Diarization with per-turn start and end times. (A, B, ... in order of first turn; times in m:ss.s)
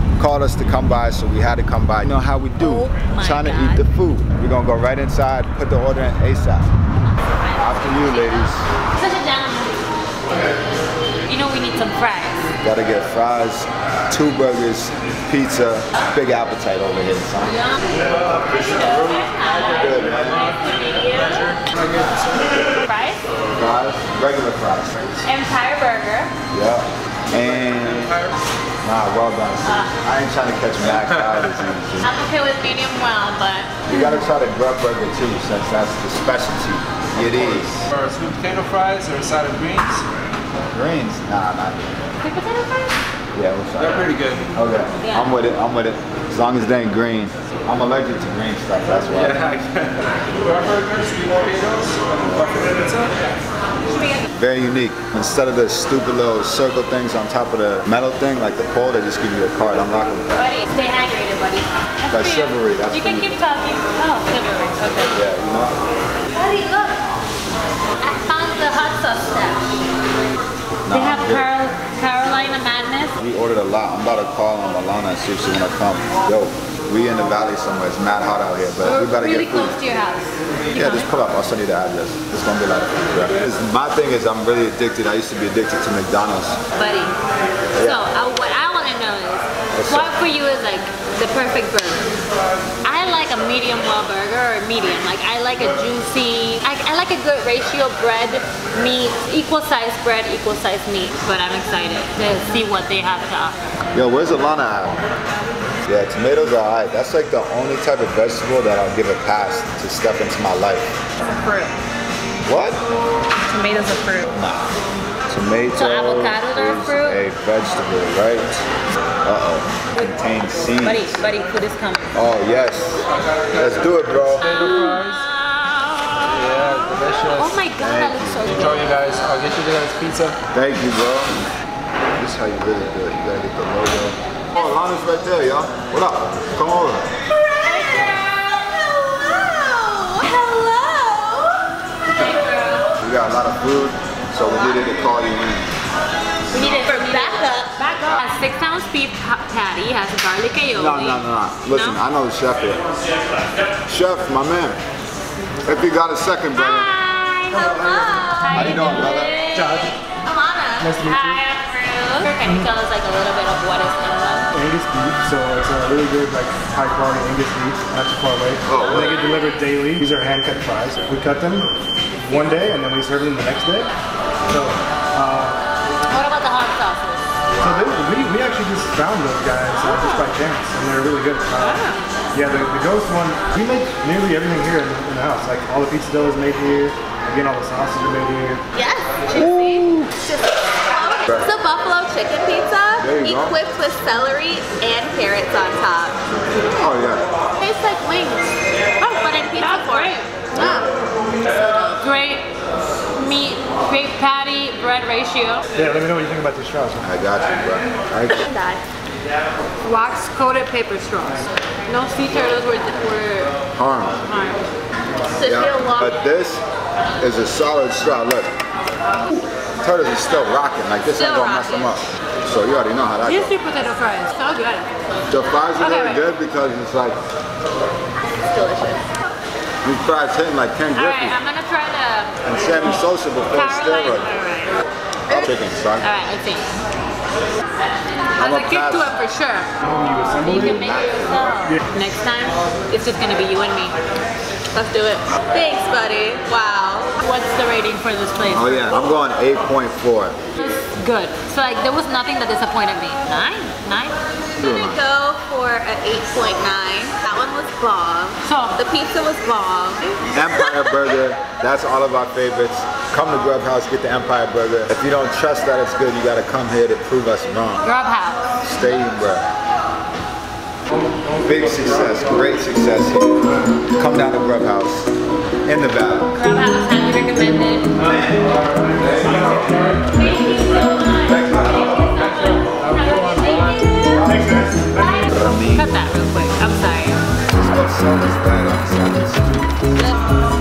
0:00.2-0:06.7 A
0:02.6-0:03.9 B
0:07.2-0:10.5 B
0:07.6-0:08.7 A
0:11.3-0:12.5 B
0:12.6-0:17.7 A
0:18.0-0:22.6 C
0:18.3-0:21.6 B
0:19.6-0:20.5 A
0:22.8-0:23.2 B
0:23.5-0:25.2 A
0:25.2-0:26.4 B
0:26.5-0:28.2 A
0:27.3-0:28.4 C
0:28.8-0:32.1 A
0:29.6-0:30.0 B
0:32.0-0:33.7 B
0:33.9-0:37.8 A
0:37.2-0:40.1 C
0:40.7-0:42.1 A
0:42.2-0:43.0 B
0:43.3-0:49.4 A
0:43.8-0:44.5 C
0:45.0-0:45.4 B
0:49.0-0:53.3 C
0:52.2-0:52.6 A
0:53.9-0:54.2 B
0:54.3-1:00.5 A
1:00.4-1:05.2 B
1:02.1-1:03.4 A
1:05.1-1:05.8 A
1:06.4-1:07.0 B
1:08.0-1:09.9 B
1:10.9-1:11.5 A
1:10.9-1:13.2 B
1:13.2-1:19.8 A
1:18.8-1:21.1 B
1:20.7-1:26.6 A
1:26.8-1:27.2 B
1:27.7-1:28.1 A
1:27.8-1:32.1 B
1:29.7-1:30.1 A
1:32.8-1:43.6 B
1:43.9-1:45.0 A
1:45.8-1:51.0 A
1:51.2-1:51.8 B
1:52.4-1:52.8 A
1:53.4-1:54.3 B
1:54.3-1:58.6 A
1:55.7-1:57.2 B
1:59.2-2:01.2 A
2:00.8-2:02.2 B
2:02.1-2:04.4 A
2:03.2-2:05.3 C
2:04.4-2:08.8 B
2:06.2-2:07.6 C
2:07.8-2:08.6 A
2:08.5-2:10.4 C
2:10.5-2:11.4 A
2:12.2-2:17.1 A
2:17.4-2:21.6 D
2:17.6-2:18.2 B
2:22.1-2:23.0 B
2:23.0-2:25.8 A
2:24.6-2:24.9 B
2:26.5-2:32.0 B
2:26.5-2:27.7 D
2:28.0-2:28.2 A
2:30.7-2:32.8 A
2:33.9-2:34.8 A
2:35.6-2:36.9 A
2:36.5-2:39.9 B
2:37.5-2:38.8 D
2:38.5-2:39.3 A
2:39.6-2:39.9 E
2:40.3-2:40.9 D
2:40.8-2:41.4 E
2:41.0-2:44.5 B
2:44.5-2:53.9 E
2:48.6-2:49.2 A
2:48.7-2:49.6 B
2:54.4-2:55.6 E
2:56.1-2:57.2 B
2:57.5-2:57.9 A
2:57.6-3:01.8 E
2:59.9-3:00.3 B
3:01.6-3:02.0 B
3:02.3-3:08.6 E
3:08.8-3:16.2 D
3:09.3-3:10.3 A
3:13.0-3:13.6 A
3:16.7-3:17.3 A
3:17.6-3:22.0 D
3:19.0-3:20.2 B
3:20.5-3:20.9 A
3:22.0-3:22.5 B
3:23.2-3:25.6 B
3:25.8-3:27.1 E
3:27.0-3:28.4 A
3:28.4-3:28.8 D
3:29.8-3:33.5 B
3:33.8-3:34.3 A
3:34.3-3:34.6 B
3:35.3-3:36.1 D
3:35.4-3:36.6 A
3:37.2-3:38.5 A
3:39.8-3:43.6 A
3:41.1-3:42.0 D
3:43.2-3:45.1 B
3:45.3-3:47.2 A
3:45.8-3:46.2 B
3:48.4-3:49.1 D
3:49.8-3:51.4 A
3:50.9-3:54.8 B
3:52.4-3:54.3 A
3:55.3-3:56.2 A
3:56.0-3:56.7 B
3:58.4-3:59.1 A
3:58.4-3:59.7 B
3:59.8-4:00.7 E
4:00.2-4:04.0 B
4:00.4-4:01.7 A
4:04.7-4:07.2 D
4:07.2-4:09.0 B
4:08.5-4:10.4 A
4:10.6-4:14.2 B
4:14.6-4:20.8 D
4:14.6-4:15.0 A
4:18.4-4:18.8 B
4:20.3-4:27.9 A
4:27.8-4:29.1 B
4:28.6-4:29.5 A
4:31.4-4:35.1 A
4:35.6-4:36.4 A
4:36.3-4:38.0 B
4:38.0-4:40.0 A
4:39.2-4:39.6 E
4:39.2-4:47.3 B
4:41.1-4:42.2 A
4:44.2-4:45.2 E
4:45.2-4:45.9 A
4:47.5-4:49.8 A